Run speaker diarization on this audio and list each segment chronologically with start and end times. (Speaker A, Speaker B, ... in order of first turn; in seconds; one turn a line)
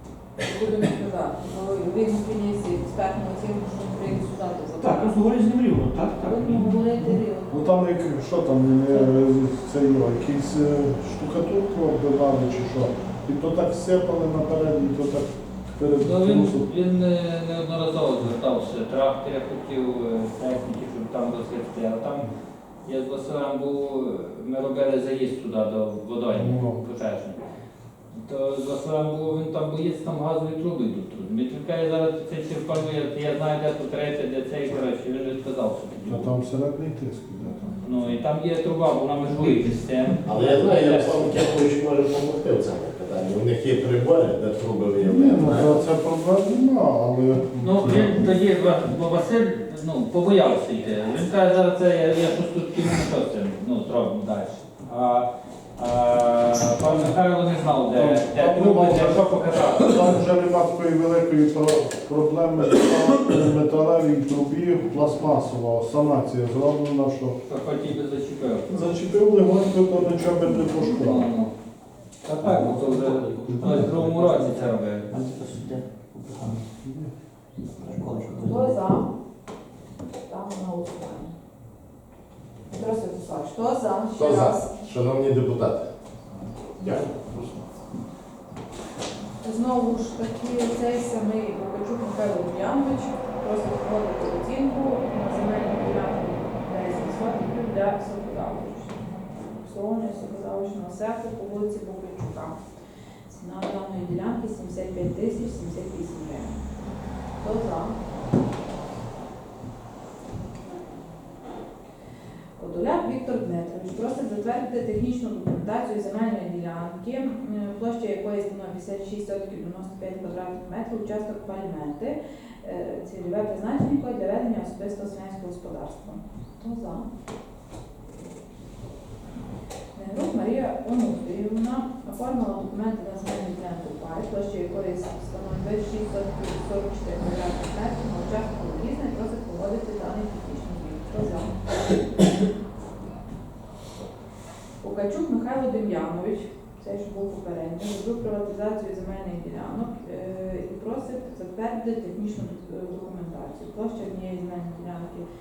Speaker A: 0.4-5.2
Speaker B: 4.8-7.2
Speaker A: 6.2-7.8
Speaker C: 7.5-16.7
Speaker D: 16.0-22.3
Speaker D: 22.9-27.4
Speaker C: 26.3-26.8
Speaker D: 28.1-36.3
Speaker C: 36.0-37.8
Speaker D: 37.8-41.4
Speaker E: 40.2-45.8
Speaker C: 45.0-48.2
Speaker D: 47.6-60.2
Speaker C: 57.9-67.4
Speaker D: 67.5-68.9
Speaker C: 68.7-71.3
Speaker D: 70.5-71.5
Speaker D: 72.2-75.1
Speaker B: 72.4-76.7
Speaker C: 76.8-77.1
Speaker B: 77.8-78.8
Speaker A: 78.4-79.1
Speaker A: 80.3-81.3
Speaker A: 82.7-84.7
Speaker E: 84.2-85.9
Speaker B: 86.8-87.7
Speaker E: 86.8-87.1
Speaker A: 89.4-102.6
Speaker A: 103.3-106.6
Speaker A: 107.4-108.0
Speaker A: 112.6-127.1
Speaker A: 129.9-141.5
Speaker A: 144.8-155.2